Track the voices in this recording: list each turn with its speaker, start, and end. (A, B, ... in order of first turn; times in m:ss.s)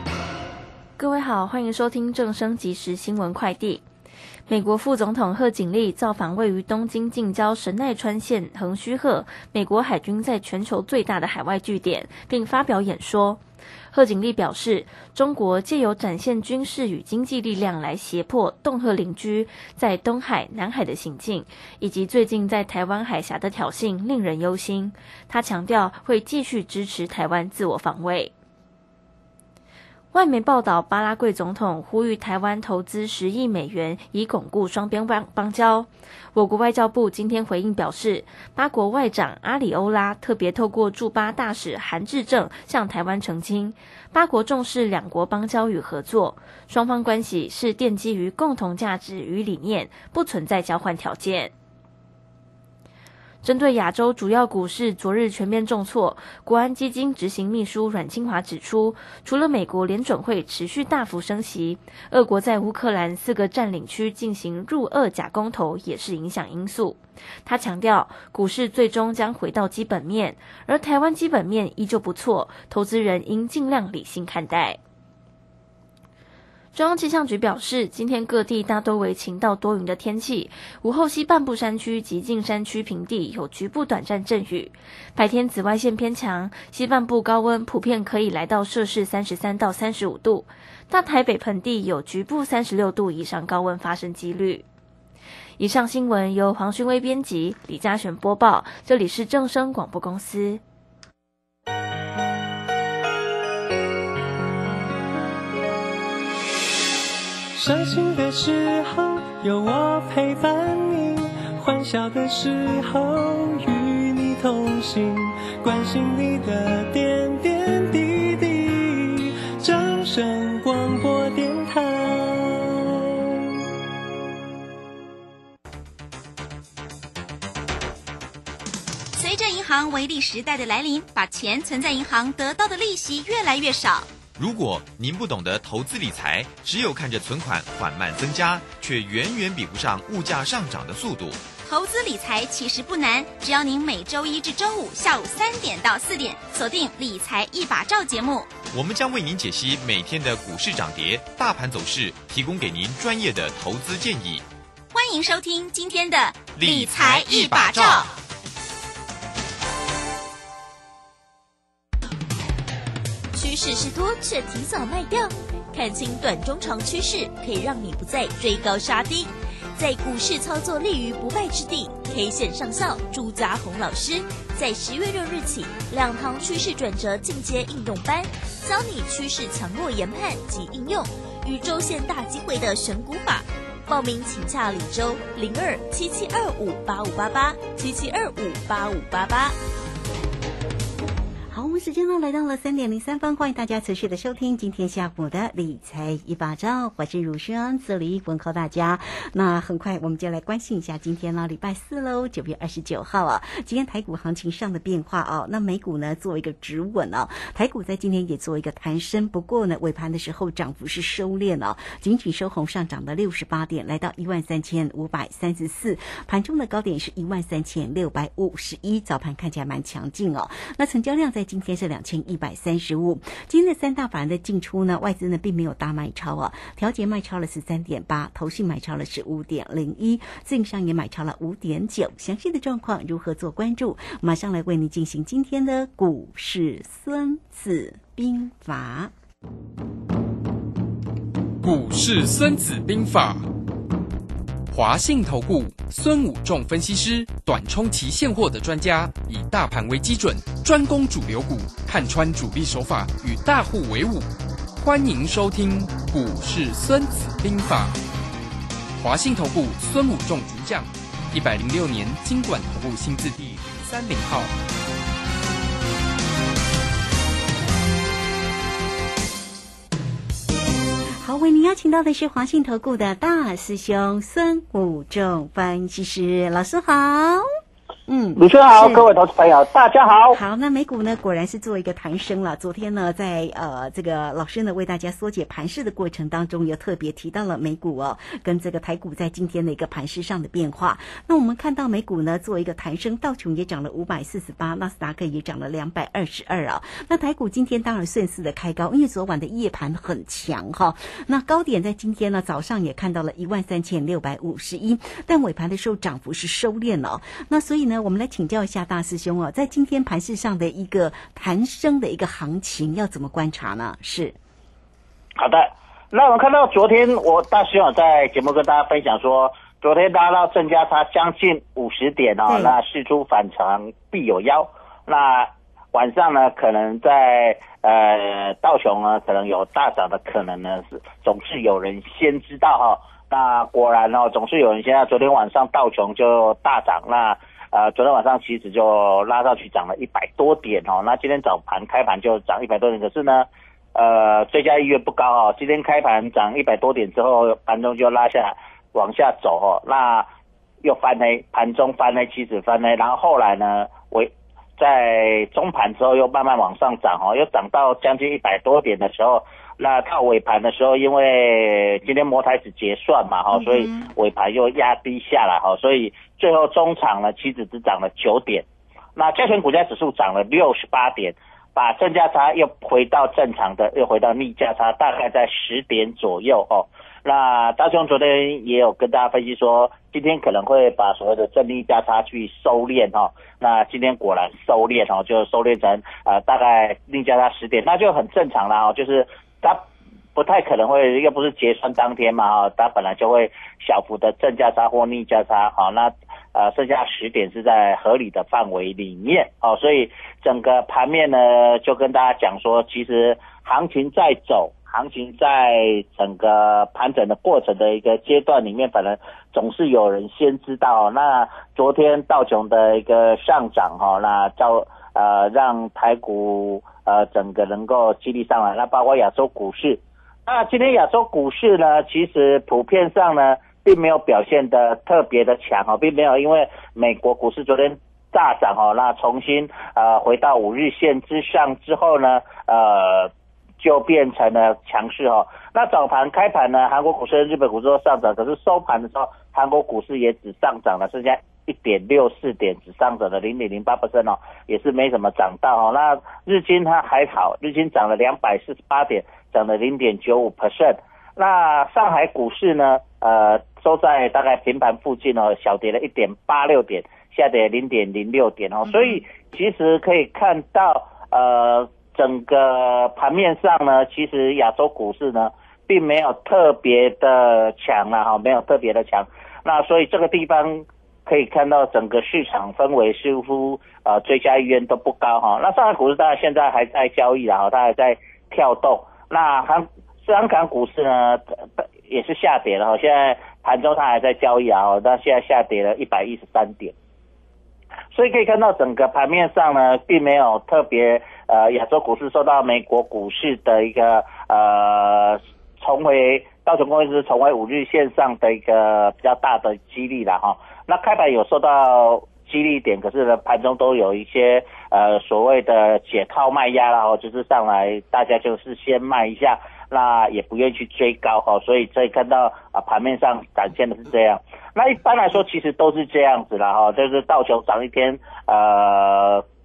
0:01.0-0:03.8 A
0:04.5-0:13.4 A
0:13.9-0:28.3 A
0:30.1-0:51.5 A
0:53.4-1:14.8 A
1:16.7-1:34.6 A
1:35.6-1:40.6 A
1:47.6-2:03.2 B
2:09.1-2:14.1 C
2:14.3-2:21.6 D
2:21.6-2:28.5 C
2:28.7-2:34.5 D
2:34.9-2:38.1 C
2:36.5-2:38.0 D
2:43.3-3:09.6 E
3:11.5-3:59.1 F
4:01.6-4:03.4 G
4:04.7-4:18.0 G
4:19.0-4:24.5 G
4:31.2-4:37.4 F
4:38.1-4:39.1 F
4:38.4-4:40.4 H
4:40.3-5:14.4 F
5:15.4-5:50.3 H
5:22.5-5:22.8 F
5:50.8-6:08.6 H
6:03.5-6:04.1 F
6:09.2-8:06.9 H
8:08.1-8:39.4 H